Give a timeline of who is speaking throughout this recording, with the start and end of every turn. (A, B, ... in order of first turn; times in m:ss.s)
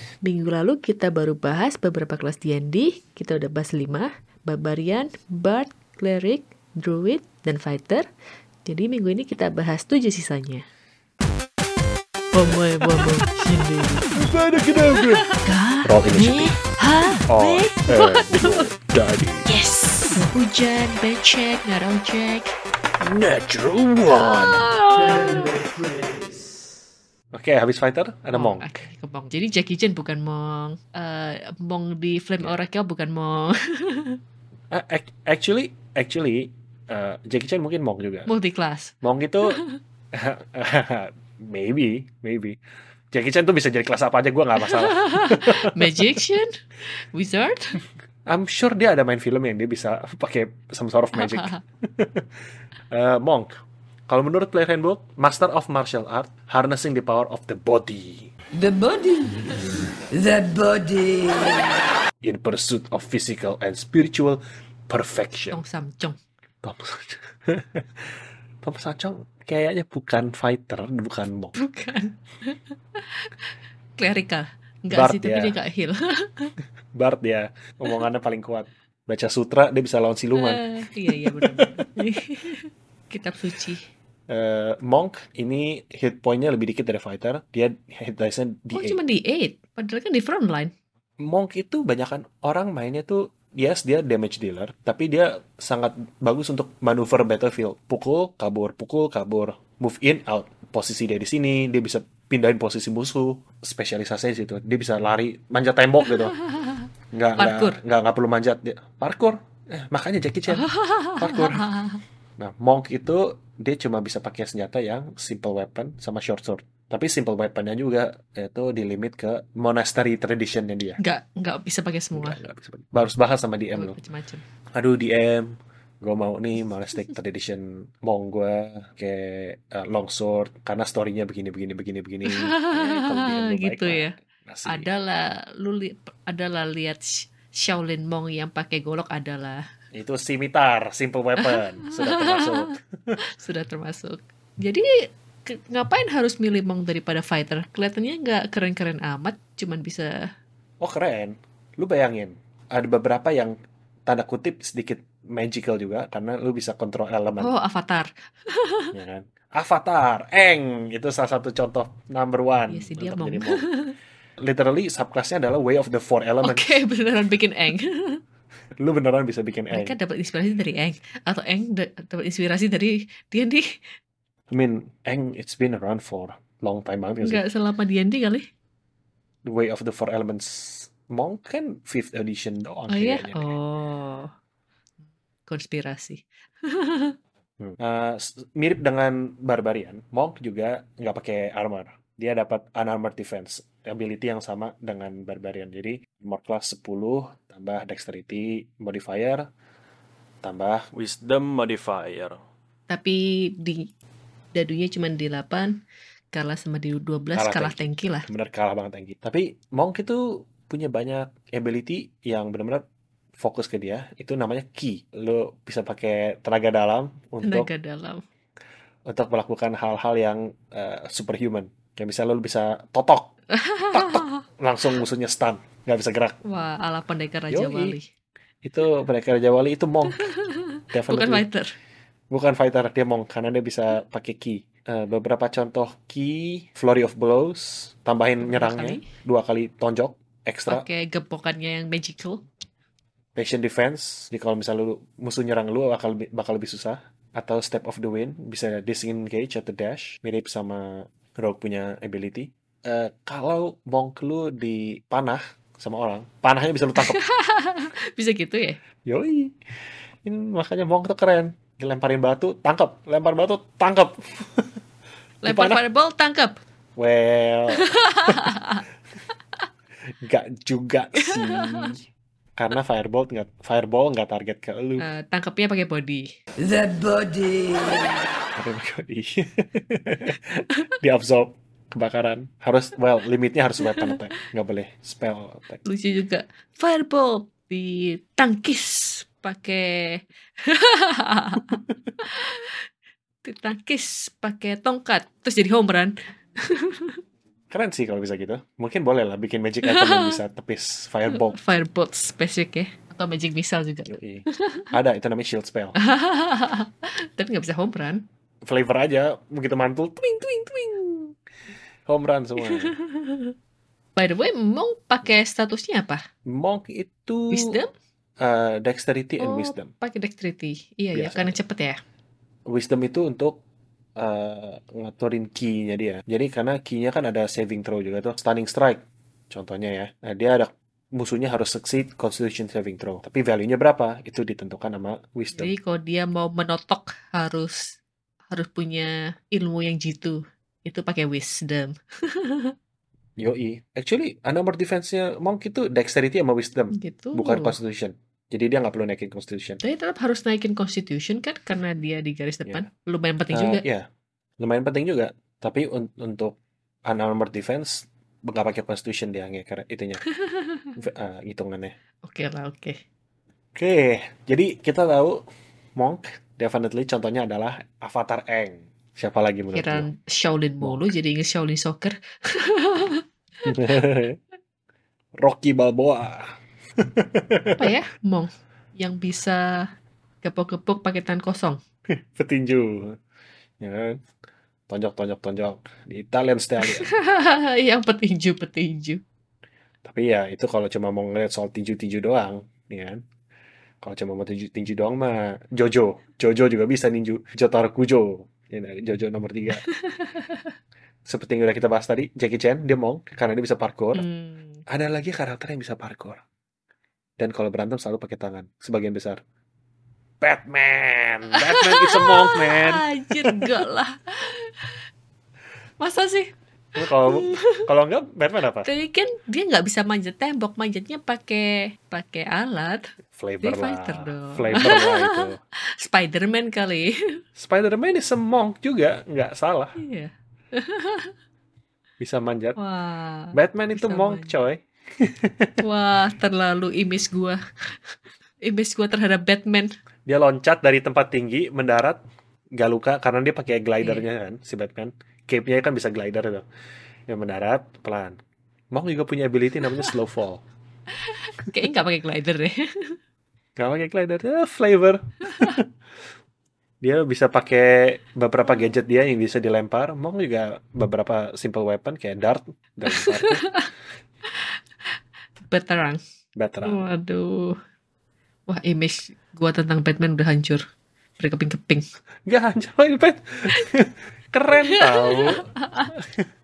0:00.2-0:08.1 A
0:08.6-0:10.6 A
0:12.3-0:14.2 A
0:14.1-0:15.3 B
0:15.0-0:18.7 A
0:15.8-0:16.6 B
0:17.3-0:19.5 B
0:19.5-0:22.5 A
0:23.0-0:26.4 B
0:24.1-0:25.5 A
0:27.3-0:28.7 B
0:28.3-0:34.2 A
0:34.7-0:38.3 B
0:38.3-0:38.9 A
0:39.0-0:39.6 B
0:39.5-0:39.8 A
0:40.1-0:42.6 B
0:43.1-0:46.2 B
0:44.6-0:47.8 A
0:48.3-0:52.3 B
0:51.2-0:51.6 A
0:52.9-0:58.3 B
0:58.6-1:01.8 C
1:02.2-1:05.6 B
1:05.5-1:06.2 A
1:06.6-1:11.6 B
1:11.6-1:13.4 A
1:14.0-1:16.5 A
1:14.9-1:15.6 B
1:16.9-1:21.9 B
1:20.4-1:23.9 A
1:24.3-1:29.0 B
1:28.7-1:30.7 A
1:31.2-1:46.4 B
1:47.1-1:51.7 B
1:47.4-1:47.8 A
1:50.5-1:52.0 A
1:52.4-2:01.0 B
2:01.0-2:02.4 A
2:02.1-2:04.0 B
2:03.8-2:04.4 A
2:04.7-2:14.9 B
2:12.2-2:14.2 A
2:14.7-2:19.7 A
2:19.9-2:23.2 B
2:21.4-2:30.2 A
2:30.8-2:33.6 B
2:34.1-2:37.5 B
2:37.4-2:38.9 A
2:38.9-2:43.7 B
2:42.7-2:43.9 A
2:44.4-2:46.8 B
2:46.4-2:48.2 A
2:48.8-2:49.9 B
2:49.7-2:53.8 A
2:54.5-2:57.4 B
2:57.2-2:58.5 A
2:59.4-3:03.5 B
3:02.9-3:04.3 A
3:05.5-3:07.2 A
3:07.6-3:19.5 B
3:20.4-3:22.4 B
3:22.9-3:23.9 A
3:24.6-3:25.8 A
3:26.3-3:28.3 A
3:27.4-3:32.8 B
3:33.4-3:37.7 B
3:37.4-3:38.2 A
3:39.1-3:43.3 B
3:43.5-3:44.4 A
3:43.9-3:46.4 B
3:46.4-3:48.1 A
3:47.5-3:48.0 B
3:48.6-3:50.3 B
3:50.2-3:51.7 A
3:50.9-3:51.4 B
3:52.3-4:00.9 B
3:58.4-3:59.1 A
4:00.7-4:02.5 A
4:03.4-4:17.2 B
4:17.0-4:18.8 A
4:19.0-4:19.6 B
4:20.2-4:24.7 B
4:25.4-4:26.6 A
4:25.5-4:25.8 B
4:27.0-4:28.5 B
4:27.8-4:28.8 A
4:30.2-4:32.0 B
4:31.2-4:31.9 A
4:32.6-4:35.1 B
4:35.0-4:36.3 A
4:36.6-4:38.3 C
4:38.6-4:45.8 B
4:45.8-4:52.9 A
4:53.4-4:57.2 A
4:57.7-5:01.6 B
4:59.8-5:00.4 A
5:01.3-5:04.9 A
5:04.1-5:06.0 B
5:06.0-5:08.2 A
5:08.6-5:11.3 B
5:12.1-5:13.0 B
5:12.7-5:13.5 A
5:14.2-5:16.2 A
5:16.5-5:17.8 B
5:17.5-5:17.9 A
5:18.4-5:19.9 B
5:19.4-5:22.0 A
5:21.1-5:21.6 B
5:22.7-5:23.6 B
5:24.2-5:35.7 B
5:35.5-5:38.0 A
5:38.5-5:42.7 A
5:43.4-5:49.8 B
5:46.9-5:47.8 A
5:49.8-5:53.8 A
5:53.5-6:00.2 B
6:00.4-6:00.9 A
6:01.0-6:01.9 B
6:02.3-6:03.0 A
6:03.8-6:05.4 B
6:06.0-6:10.1 B
6:09.7-6:13.2 A
6:13.7-6:14.4 B
6:15.4-6:17.9 B
6:17.8-6:19.9 A
6:20.4-6:21.8 A
6:22.1-6:23.2 B
6:23.8-6:24.2 B
6:24.9-6:27.1 B
6:26.8-6:29.2 A
6:30.0-6:33.2 B
6:34.0-6:39.8 B
6:39.8-6:40.7 A
6:41.3-6:44.2 B
6:44.1-6:44.8 A
6:44.9-6:46.4 B
6:47.4-6:49.4 B
6:50.4-6:53.8 B
6:51.5-6:55.0 A
6:56.0-6:57.9 A
6:57.0-6:58.9 B
6:58.8-7:03.1 A
7:03.4-7:05.6 B
7:03.6-7:07.4 A
7:07.6-7:10.0 B
7:10.0-7:11.3 A
7:12.2-7:12.8 B
7:12.8-7:14.5 A
7:13.5-7:15.8 B
7:15.8-7:19.9 A
7:20.3-7:22.2 B
7:22.8-7:26.7 B
7:27.3-7:28.4 B
7:28.9-7:30.6 B
7:31.2-7:33.2 A
7:33.8-7:35.9 B
7:35.5-7:35.8 A
7:37.0-7:43.6 B
7:43.1-7:43.9 A
7:45.6-7:46.2 A
7:46.6-7:47.0 B
7:46.8-7:47.8 A
7:48.7-7:50.8 A
7:51.4-7:52.0 A
7:52.5-7:56.5 B
7:54.8-7:56.1 A